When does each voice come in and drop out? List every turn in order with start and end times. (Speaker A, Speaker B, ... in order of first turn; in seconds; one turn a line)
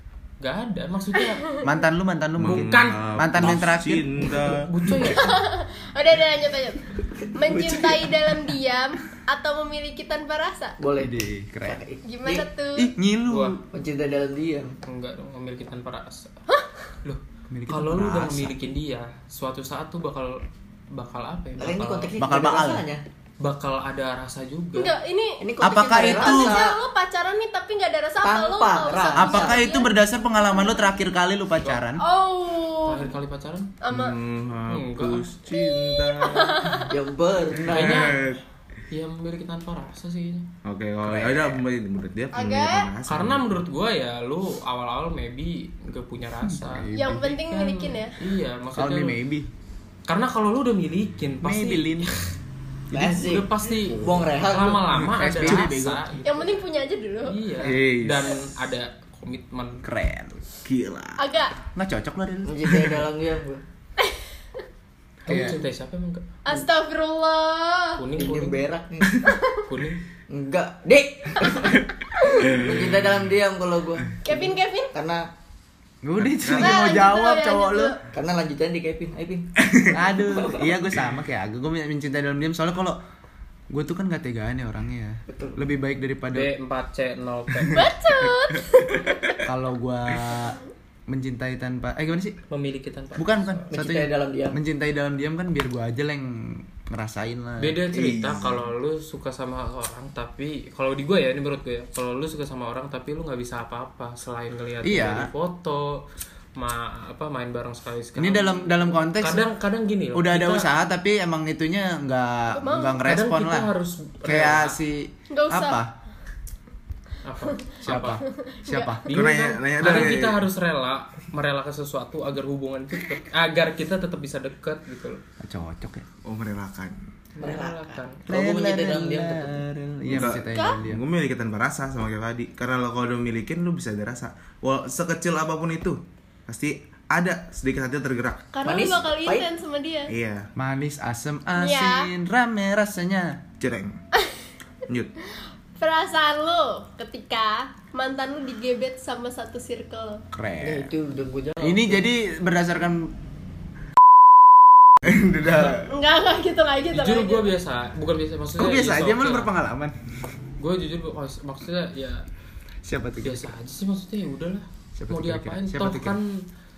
Speaker A: 0.4-1.6
Speaker B: 1.6-4.1
Speaker C: 2.4-4.7
Speaker A: 2.4-3.1
Speaker A: 4.5-5.3
Speaker D: 4.9-6.8
Speaker D: 7.3-10.8
Speaker E: 7.4-8.0
Speaker E: 10.8-12.4
Speaker B: 11.0-11.8
Speaker D: 12.1-12.9
Speaker B: 12.8-13.6
Speaker A: 13.3-13.6
Speaker E: 13.7-14.8
Speaker A: 14.8-16.3
Speaker A: 17.1-22.1
Speaker B: 17.5-18.6
Speaker E: 21.6-23.0
Speaker B: 22.2-22.9
Speaker A: 23.4-24.9
Speaker D: 24.8-30.0
Speaker E: 25.4-26.8
Speaker B: 25.6-26.6
Speaker E: 28.2-29.7
Speaker B: 29.1-32.0
Speaker D: 32.0-33.1
Speaker A: 32.9-33.8
Speaker D: 33.8-34.2
Speaker C: 33.9-36.8
Speaker A: 34.7-35.2
Speaker D: 35.5-36.9
Speaker E: 36.9-38.2
Speaker B: 37.5-38.1
Speaker C: 37.7-38.4
Speaker A: 37.7-38.3
Speaker A: 38.9-40.5
Speaker C: 40.6-43.5
Speaker B: 41.0-41.6
Speaker D: 42.3-42.9
Speaker A: 43.1-49.2
Speaker B: 46.4-47.4
Speaker D: 46.9-48.2
Speaker B: 48.8-49.5
Speaker A: 50.1-52.1
Speaker B: 51.4-52.2
Speaker E: 52.9-54.9
Speaker B: 52.9-53.2
Speaker A: 53.2-56.5
Speaker B: 55.0-56.1
Speaker D: 56.2-57.4
Speaker A: 57.3-59.9
Speaker C: 57.6-58.3
Speaker B: 59.8-60.4
Speaker C: 60.6-61.2
Speaker D: 61.2-61.5
Speaker B: 61.8-63.0
Speaker E: 62.5-63.6
Speaker A: 65.2-66.3
Speaker B: 65.3-65.6
Speaker D: 66.4-68.0
Speaker A: 68.0-68.7
Speaker E: 68.2-69.2
Speaker D: 69.2-69.6
Speaker A: 69.6-70.0
Speaker E: 70.3-71.9
Speaker D: 72.2-72.6
Speaker E: 72.5-75.3
Speaker D: 74.2-74.9
Speaker B: 76.0-78.0
Speaker C: 76.2-76.8
Speaker D: 76.6-78.0
Speaker E: 78.1-80.7
Speaker C: 79.7-79.9
Speaker B: 79.9-83.0
Speaker B: 83.7-86.5
Speaker E: 85.3-85.6
Speaker A: 86.3-87.9
Speaker D: 87.7-89.4
Speaker B: 89.5-92.4
Speaker A: 92.5-93.7
Speaker B: 93.2-97.8
Speaker E: 93.7-94.6
Speaker A: 97.6-110.7
Speaker C: 97.9-98.6
Speaker B: 104.8-105.3
Speaker B: 108.2-109.5
Speaker B: 110.1-113.7
Speaker D: 112.5-113.1
Speaker A: 113.0-114.8
Speaker B: 114.2-115.9
Speaker D: 115.3-115.8
Speaker A: 117.2-118.2
Speaker B: 117.8-119.1
Speaker D: 118.4-119.1
Speaker A: 119.1-125.2
Speaker C: 119.1-120.4
Speaker B: 119.9-120.1
Speaker B: 125.4-126.0
Speaker C: 126.2-127.0
Speaker A: 127.4-128.2
Speaker E: 127.4-129.6
Speaker B: 128.3-131.0
Speaker C: 130.1-138.5
Speaker D: 130.5-130.8
Speaker D: 138.5-140.1
Speaker E: 138.6-139.5
Speaker C: 140.1-140.5
Speaker B: 140.6-143.4
Speaker D: 141.6-142.1
Speaker C: 143.6-144.0
Speaker D: 145.8-150.2
Speaker B: 150.3-150.9
Speaker E: 150.6-152.0
Speaker B: 151.6-153.1
Speaker C: 155.0-155.9
Speaker D: 155.7-157.5
Speaker A: 156.9-159.5
Speaker B: 158.6-159.9
Speaker A: 160.6-162.3
Speaker B: 162.8-163.5
Speaker A: 163.2-166.5
Speaker B: 165.0-166.2